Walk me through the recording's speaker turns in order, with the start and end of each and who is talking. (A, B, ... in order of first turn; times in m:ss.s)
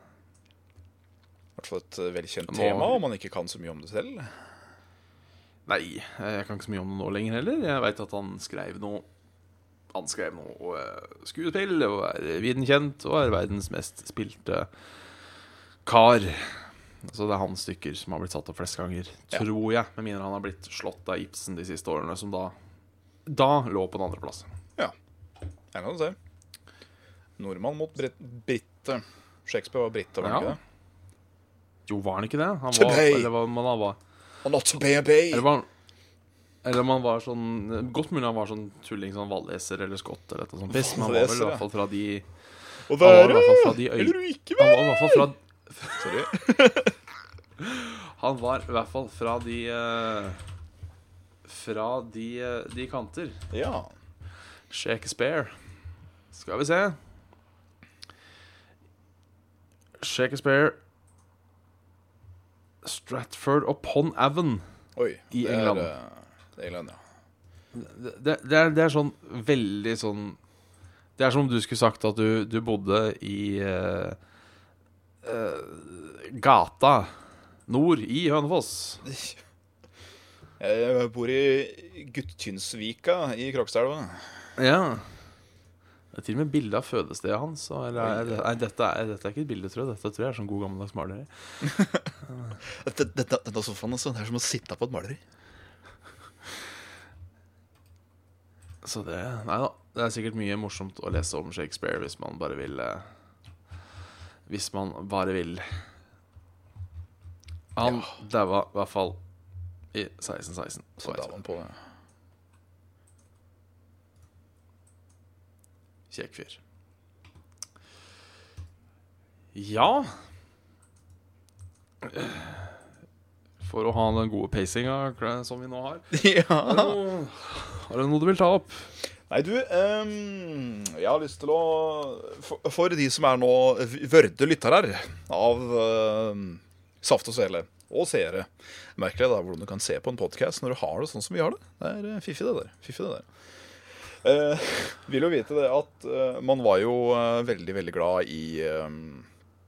0:01.6-0:04.3 A
0:02.4-0:03.0 B
0:05.7-0:09.0 B
0:09.9-0:14.7 B
0:15.8-0:22.5 B
0:23.3-0:24.5 B
0:25.7-0:26.2 A
0:27.4-0:30.6 A
0:30.2-0:30.6 B
0:31.9-0:34.0 B
0:32.7-0:33.3 A
0:34.4-0:35.5 A
0:35.3-0:35.7 B
0:36.6-0:42.2 B
0:40.7-0:41.6 A
0:42.9-0:45.3 A
0:43.0-0:46.1 B
0:46.0-0:46.9 A
0:47.6-0:50.4 B
0:51.4-0:53.4 B
0:53.5-0:53.9 A
0:54.7-0:55.5 B
0:56.3-0:57.0 B
1:00.0-1:00.8 B
1:02.8-1:04.6 B
1:05.0-1:07.0 A
1:05.3-1:05.9 B
1:07.7-1:10.4 B
1:11.2-1:14.2 B
1:15.2-1:17.1 B
1:17.7-1:19.0 B
1:19.0-1:19.4 A
1:20.6-1:24.3 A
1:24.6-1:25.0 B
1:26.1-1:31.3 B
1:28.0-1:28.5 A
1:31.6-1:32.1 A
1:32.6-1:35.2 A
1:38.8-1:43.0 B
1:44.5-1:45.6 B
1:47.8-1:49.2 B
1:47.8-1:48.1 A
1:49.9-1:51.3 B
1:51.0-1:51.8 A
1:56.1-1:56.6 B
1:59.5-2:00.1 B
2:02.0-2:02.8 B
2:03.6-2:06.1 B
2:06.1-2:07.0 A
2:06.6-2:08.9 B
2:09.3-2:23.3 A
2:24.1-2:29.3 A